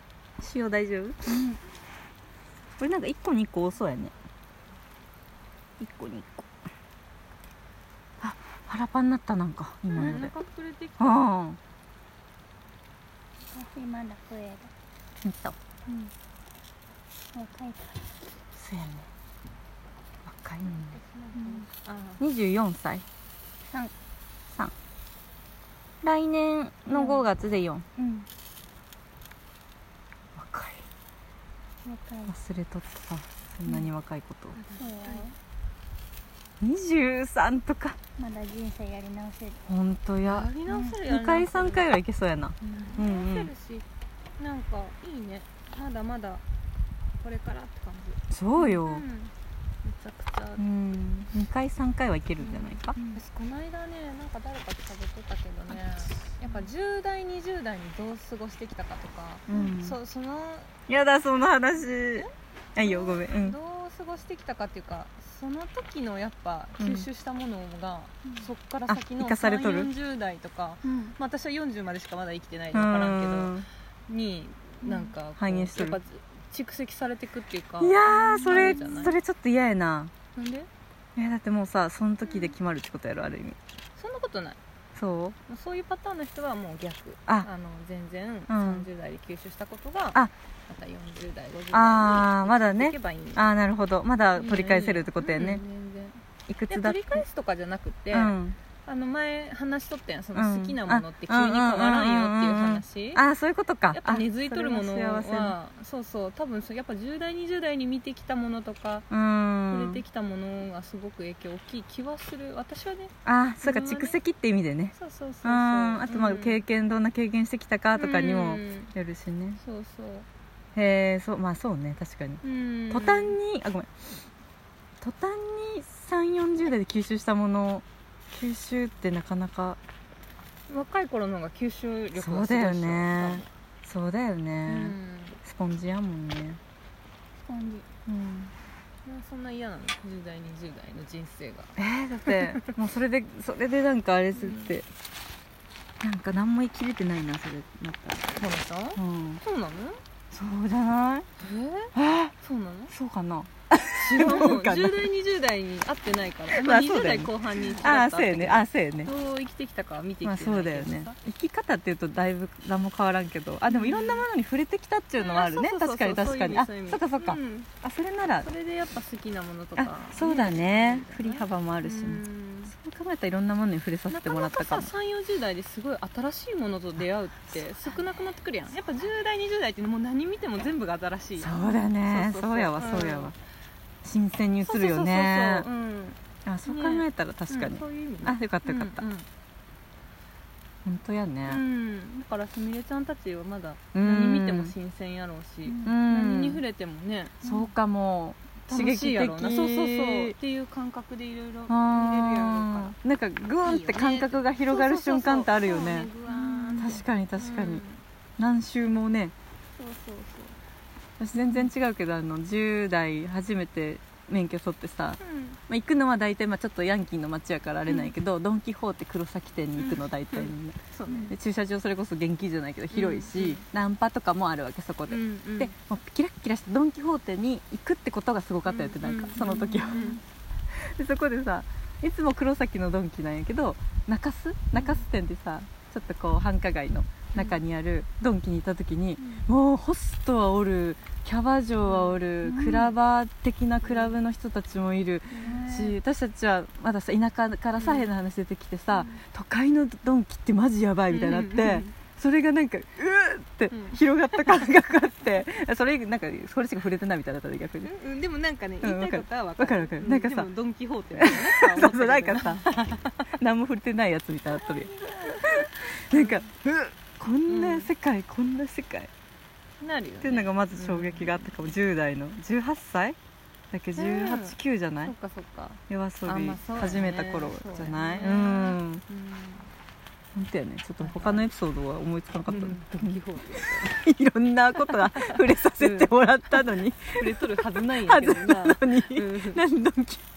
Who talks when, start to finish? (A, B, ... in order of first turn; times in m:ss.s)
0:00.4-0:01.4 A
0:01.3-0:01.6 B
0:02.8-0:04.1 A
0:05.8-0:06.5 A
0:08.2-0:10.3 A
0:09.9-0:11.3 C
0:10.0-0:10.3 B
0:11.0-0:11.6 A
0:13.5-0:14.7 B
0:15.2-0:15.6 A
0:17.3-0:18.2 B
0:18.5-0:19.1 A
0:20.2-0:21.0 A
0:20.6-0:22.2 C
0:21.3-0:21.6 B
0:22.2-0:23.0 A
0:23.7-0:23.9 B
0:26.0-0:27.8 A
0:26.9-0:27.2 B
0:28.0-0:28.3 B
0:30.3-0:30.8 A
0:31.8-0:32.3 B
0:32.3-0:34.6 A
0:34.5-0:35.3 C
0:34.7-0:35.4 B
0:36.6-0:38.0 A
0:38.2-0:39.6 B
0:39.6-0:40.5 A
0:40.2-0:42.0 C
0:40.7-0:40.9 B
0:41.0-0:43.5 A
0:42.6-0:43.8 C
0:44.4-0:46.4 C
0:47.2-0:50.6 C
0:48.3-0:49.0 A
0:50.6-0:53.0 A
0:52.4-1:00.7 C
0:53.0-0:53.2 B
0:59.5-1:00.0 A
1:00.9-1:03.6 A
1:02.0-1:19.2 C
1:06.8-1:07.1 A
1:08.2-1:08.5 B
1:08.8-1:09.9 A
1:10.8-1:11.1 B
1:12.7-1:13.6 A
1:14.8-1:15.1 B
1:15.4-1:16.0 A
1:17.8-1:20.1 A
1:18.1-1:19.1 B
1:20.3-1:20.7 C
1:21.2-1:23.6 A
1:22.2-1:22.6 C
1:24.0-1:24.6 C
1:24.9-1:25.4 A
1:25.5-1:33.4 C
1:28.5-1:28.9 A
1:31.7-1:35.6 A
1:34.3-1:43.2 C
1:36.5-1:37.2 A
1:38.1-1:38.6 A
1:40.3-1:45.6 A
1:43.9-1:49.1 C
1:49.1-1:50.0 A
1:49.7-1:54.2 C
1:53.2-1:59.6 A
1:54.9-1:56.6 C
1:57.9-1:58.9 C
1:59.6-2:00.3 C
2:00.7-2:04.2 A
2:02.4-2:03.4 C
2:05.0-2:09.8 A
2:10.7-2:13.4 C
2:12.1-2:16.6 A
2:14.6-2:15.4 C
2:17.4-2:17.9 B
2:18.1-2:18.5 A
2:19.0-2:22.7 C
2:21.8-2:24.9 A
2:24.3-2:24.7 C
2:26.0-2:28.4 A
2:28.4-2:30.0 C
2:29.0-2:29.4 A
2:30.3-2:31.3 A
2:31.4-2:32.9 C
2:31.9-2:32.3 A
2:32.9-2:35.1 A
2:33.9-2:41.2 C
2:36.5-2:39.1 A
2:40.2-2:48.5 A
2:43.7-2:44.3 C
2:45.2-2:47.7 C
2:48.4-2:52.7 C
2:49.8-2:54.9 A
2:54.1-3:03.3 C
2:57.8-2:58.4 B
3:01.4-3:03.4 A
3:04.0-3:05.7 A
3:04.6-3:09.3 C
3:06.4-3:09.0 A
3:10.8-3:11.6 A
3:11.4-3:17.5 C
3:13.9-3:14.7 A
3:15.6-3:16.0 B
3:15.8-3:16.6 A
3:17.4-3:20.4 A
3:18.7-3:23.0 C
3:21.7-3:26.1 A
3:23.6-3:28.0 C
3:26.2-3:27.0 B
3:26.8-3:27.8 A
3:28.4-3:29.3 A
3:29.8-3:30.5 B
3:31.2-4:17.9 A
3:35.2-3:35.6 C
3:39.8-3:41.3 C
3:42.9-3:43.6 C
3:45.1-3:45.7 C
3:48.6-3:50.2 C
3:49.4-3:50.2 B
3:54.8-3:55.0 C
3:57.3-3:57.6 C
3:59.2-3:59.5 B
4:01.8-4:02.2 C
4:02.4-4:02.9 B
4:03.8-4:04.2 C
4:05.3-4:05.8 C
4:05.4-4:05.9 B
4:07.8-4:08.1 C
4:08.9-4:09.2 C
4:11.1-4:11.9 C
4:13.7-4:14.5 C
4:17.8-4:23.3 C
4:18.8-4:20.5 A
4:21.2-4:22.6 A
4:23.4-4:29.1 A
4:24.5-4:25.4 B
4:26.0-4:26.5 C
4:27.5-4:27.9 C
4:29.8-4:31.5 C
4:30.2-4:33.2 A
4:33.7-4:35.1 A
4:34.0-4:39.7 C
4:35.9-4:39.0 A
4:40.3-4:50.2 A
4:41.0-4:41.5 C
4:42.5-4:44.1 C
4:44.8-4:49.6 C